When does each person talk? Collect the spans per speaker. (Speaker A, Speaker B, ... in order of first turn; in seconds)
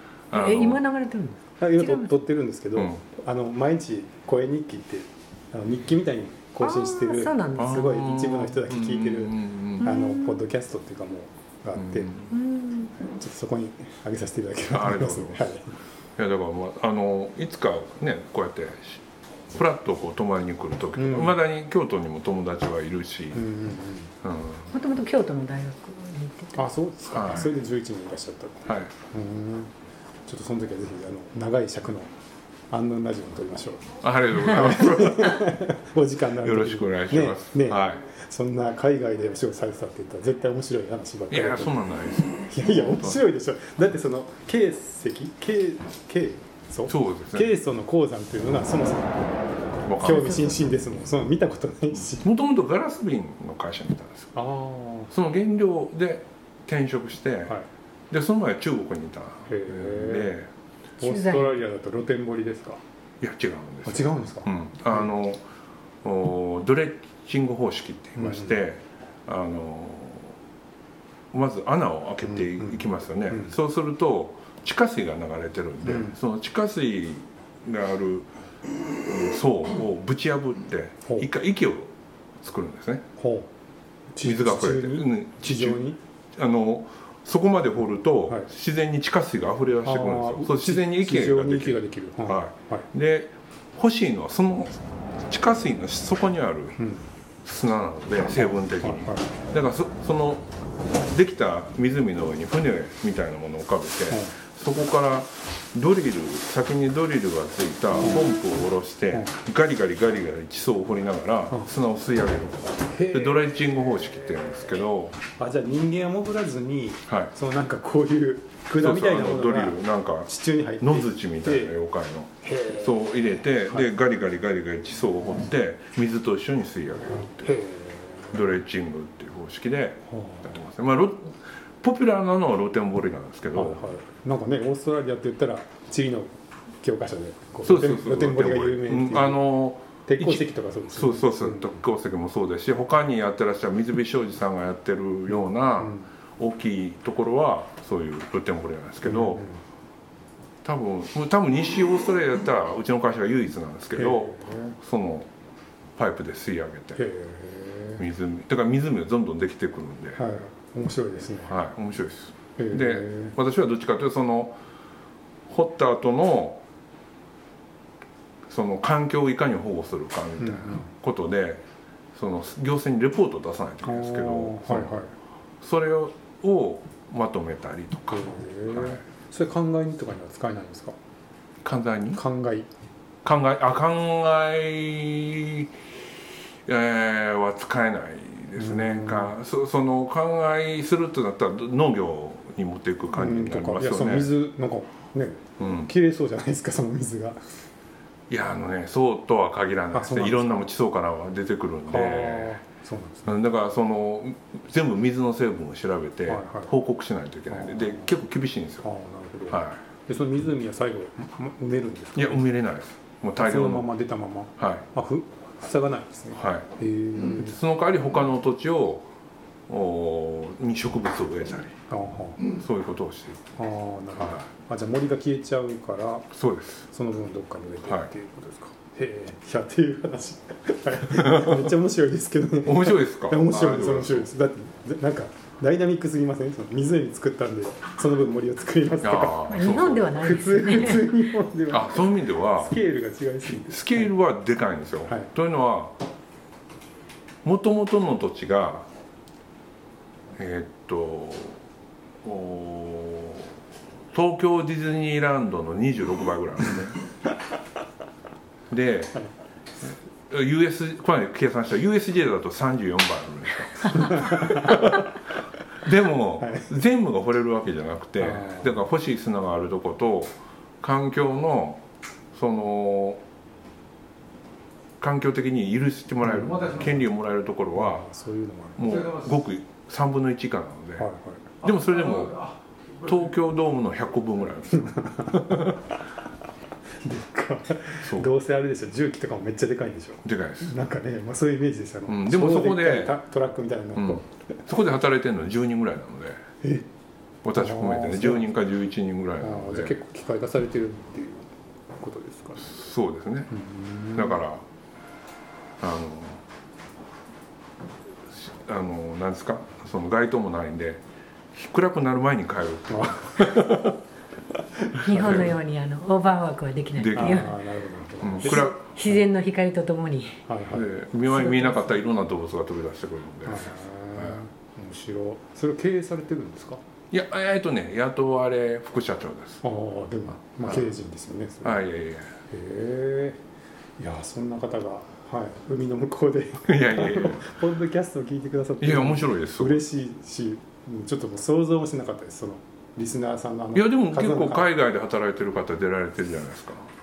Speaker A: 0.3-0.8, 2.7-3.0, 7.5-9.9, 11.8-12.3, 14.7-15.5, 16.2-23.4, 24.2-24.7, 27.1-27.5, 28.6-28.9, 34.0-35.6, 36.4-38.0, 41.3-43.2, 46.9-47.5, 49.9-50.5, 52.2-54.3, 55.1-57.5, 58.1-60.5, 63.2-65.4, 66.0-70.3, 71.3-78.3, 79.0-83.0, 84.2-85.8, 86.3-96.8, 97.4-115.2, 118.8-127.5, 128.3-133.8, 137.6-149.4, 150.6-155.3, 155.9-157.0, 158.0-160.2, 161.5-164.6, 165.5-166.6, 168.5-171.6, 172.1-174.9, 175.6-179.0, 181.6-182.2, 183.2-185.7, 186.7-194.3, 195.6-195.9, 198.3-202.6, 203.3-208.8, 209.5-209.8, 212.2-213.9, 214.6-214.8, 216.3-216.7, 217.2-219.1, 219.7-221.8, 222.4-223.5, 224.2-224.4, 226.3-226.8, 231.1-231.6, 232.6-234.3, 239.0-241.1, 241.7-242.8, 243.6-245.9, 247.4-248.9, 250.3-251.6, 252.2-253.5, 254.1-257.0, 258.7-259.2, 260.3-265.2, 265.8-273.2, 275.0-278.1, 278.8-281.1, 281.6-285.8, 288.0-288.3, 290.2-290.7, 292.1-293.1, 293.9-296.4, 297.4-299.9, 302.6-303.5, 304.1-304.6, 305.8-306.4, 308.4-311.0, 311.5-313.9, 315.1-315.5, 317.0-317.6, 318.2-318.7, 320.7-324.4, 327.1-329.6, 330.6-330.9, 331.6-332.3, 336.6-337.5, 338.8-339.8, 343.7-346.9
Speaker B: 0.3-2.1, 6.6-7.7, 9.8-10.4, 12.3-12.9, 24.7-26.7, 50.0-50.5, 61.0-61.6, 239.5-241.2, 315.0-317.6, 318.4-320.4, 321.3-321.9
Speaker C: 1.6-12.1, 13.0-15.7, 21.0-21.4, 23.3-24.1, 26.6-29.7, 30.2-32.1, 32.7-41.8, 42.4-49.3, 50.0-52.3, 54.3-55.1, 59.5-60.3, 61.0-62.8, 63.8-65.1, 68.2-68.6, 72.2-73.5, 75.8-76.1, 83.2-83.5, 84.1-86.0, 89.8-92.9, 96.8-97.0, 98.4-99.3, 104.1-104.3, 108.0-108.3, 112.9-113.5, 115.4-121.8, 122.4-123.0, 127.2-128.4, 130.1-130.6, 133.5-139.5, 140.1-141.8, 145.3-146.1, 149.0-149.6, 153.9-154.8, 156.9-158.0, 160.2-161.6, 162.6-163.3, 170.4-170.9, 173.8-175.1, 178.1-180.9, 182.1-182.7, 188.6-189.3, 193.2-197.4, 199.9-200.7, 201.9-203.3, 206.3-206.7, 207.5-208.1, 208.8-212.5, 213.4-217.6, 221.9-222.4, 223.6-226.3, 226.9-239.5, 240.2-244.1, 263.9-264.9, 266.4-266.7, 268.2-268.8, 276.2-276.9, 277.7-279.1, 281.0-281.5, 284.7-285.7, 287.0-294.2, 297.5-298.5, 299.4-302.7, 303.5-304.4, 312.9-313.9, 314.8-315.5, 317.1-319.2, 320.5-320.9, 323.4-326.8, 329.6-331.8, 332.5-333.4, 334.0-344.7